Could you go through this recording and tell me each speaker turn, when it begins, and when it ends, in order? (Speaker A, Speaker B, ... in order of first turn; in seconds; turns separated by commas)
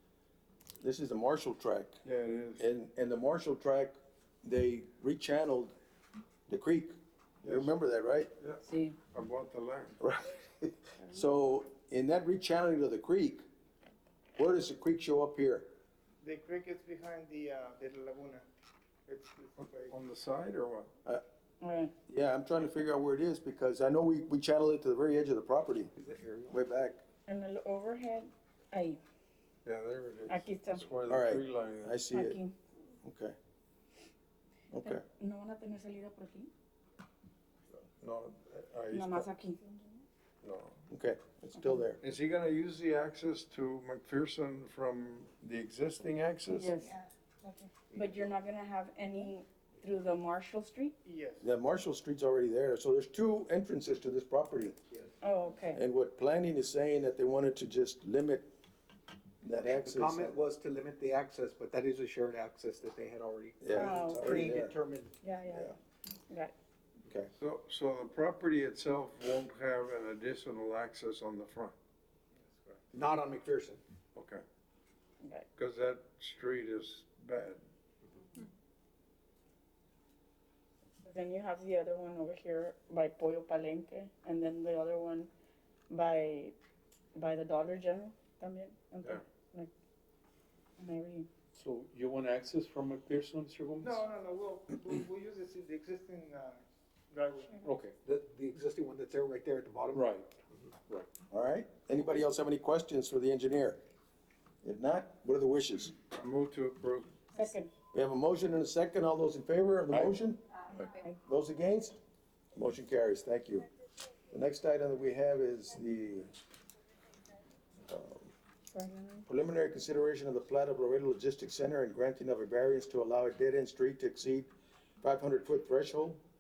Speaker A: 0.8-2.0, Speaker B: 2.0-2.6, Speaker A: 2.6-5.7, Speaker A: 6.5-8.3, Speaker B: 7.4-7.7, Speaker B: 8.4-10.0, Speaker C: 8.6-9.0, Speaker A: 10.0-13.4, Speaker A: 14.4-15.7, Speaker D: 16.2-18.4, Speaker D: 19.1-20.0, Speaker B: 19.6-20.9, Speaker C: 21.6-21.9, Speaker A: 22.1-27.0, Speaker C: 27.3-29.0, Speaker B: 29.6-32.0, Speaker C: 30.3-30.9, Speaker A: 31.0-32.4, Speaker C: 32.1-32.5, Speaker A: 33.0-33.4, Speaker A: 34.7-35.0, Speaker C: 34.8-36.5, Speaker B: 38.0-39.3, Speaker C: 38.9-39.6, Speaker B: 40.4-40.8, Speaker A: 40.9-42.0, Speaker B: 42.0-46.8, Speaker C: 46.5-51.0, Speaker D: 51.0-51.5, Speaker A: 51.4-54.8, Speaker C: 55.2-55.8, Speaker A: 55.7-58.5, Speaker A: 59.4-60.4, Speaker E: 59.8-65.2, Speaker A: 63.6-64.8, Speaker C: 63.7-64.4, Speaker C: 65.2-65.8, Speaker C: 66.3-66.5, Speaker B: 67.4-71.8, Speaker D: 72.4-72.8, Speaker E: 72.9-73.8, Speaker B: 74.2-74.4, Speaker C: 75.2-75.5, Speaker B: 75.6-77.6, Speaker C: 81.0-85.3, Speaker C: 85.9-86.5, Speaker C: 87.2-89.7, Speaker C: 90.8-91.3, Speaker F: 91.6-94.0, Speaker D: 93.8-97.7, Speaker F: 97.7-97.9, Speaker E: 98.0-100.0, Speaker F: 100.0-100.3, Speaker A: 101.3-103.8, Speaker A: 104.6-105.9, Speaker B: 106.1-107.2, Speaker C: 107.3-107.7, Speaker A: 107.9-110.4, Speaker C: 110.9-111.2, Speaker A: 111.2-112.0, Speaker A: 112.5-113.7, Speaker A: 114.3-116.3, Speaker A: 117.9-118.3, Speaker C: 118.7-119.3, Speaker A: 119.3-124.5, Speaker A: 125.0-126.2